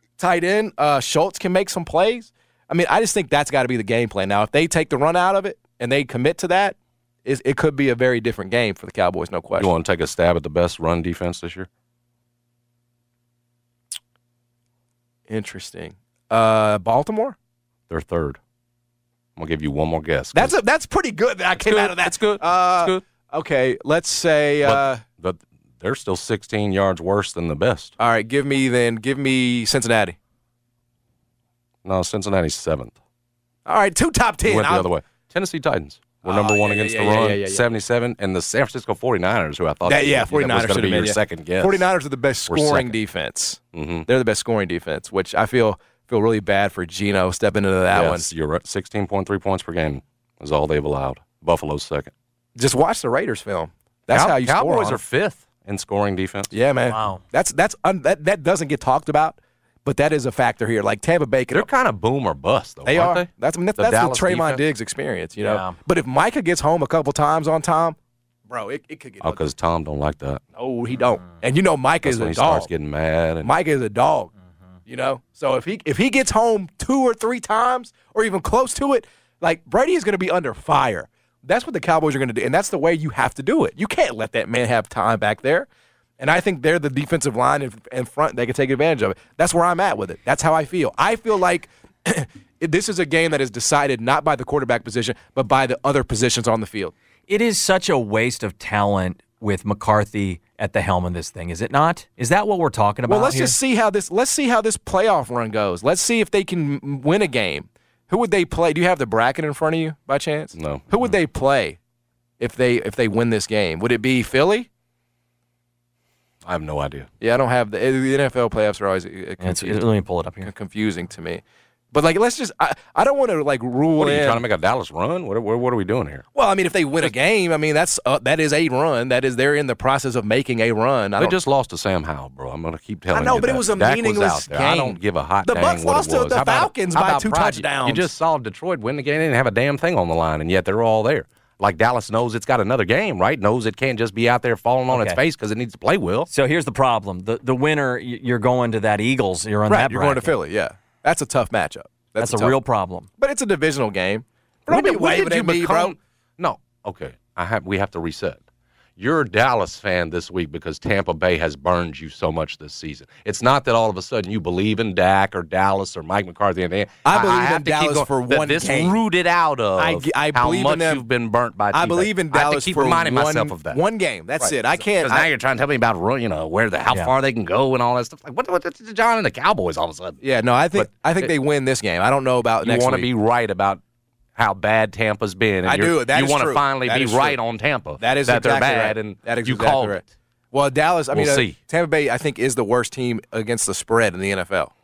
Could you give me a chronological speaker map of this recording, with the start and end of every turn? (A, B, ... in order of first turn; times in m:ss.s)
0:00.2-0:09.7 A
0:09.6-0:11.7 B
0:15.3-0:17.4 A
0:17.9-0:18.4 B
0:19.4-0:20.5 B
0:20.3-0:25.0 A
0:21.6-0:23.0 B
0:24.6-0:28.0 B
0:28.0-0:30.2 A
0:31.8-0:33.0 B
0:33.6-0:34.9 A
0:34.5-0:41.9 B
0:36.2-0:37.6 A
0:39.9-0:48.2 A
0:42.5-0:42.9 B
0:43.7-0:44.1 B
0:47.9-0:52.1 B
0:52.6-0:55.0 A
0:54.1-0:56.5 B
0:56.5-1:01.7 A
0:56.9-0:57.2 C
1:01.5-1:04.6 B
1:02.9-1:08.0 A
1:05.4-1:05.8 C
1:08.5-1:09.4 A
1:09.2-1:10.4 B
1:10.6-1:12.7 A
1:12.0-1:13.5 B
1:13.4-1:14.3 A
1:14.9-1:25.7 A
1:26.2-1:36.9 A
1:37.3-1:43.6 C
1:43.1-1:51.8 A
1:50.5-1:50.9 B
1:52.4-1:54.7 A
1:56.4-1:57.1 B
1:57.2-1:59.8 A
1:59.4-2:00.5 C
2:00.4-2:04.4 A
2:04.0-2:06.2 B
2:06.4-2:11.4 A
2:11.2-2:26.3 B
2:13.1-2:18.1 A
2:24.9-2:25.2 C
2:26.3-2:30.3 C
2:29.7-2:32.6 A
2:32.2-2:33.1 C
2:33.2-2:36.0 A
2:34.7-2:38.4 B
2:39.0-2:53.8 B
2:47.0-2:49.0 A
2:49.8-2:51.0 A
2:51.7-2:55.3 A
2:54.4-3:00.2 B
3:00.2-3:03.1 A
3:00.8-3:01.3 B
3:02.6-3:03.8 B
3:04.4-3:10.1 B
3:05.6-3:07.4 A
3:08.0-3:14.7 A
3:11.1-3:11.6 B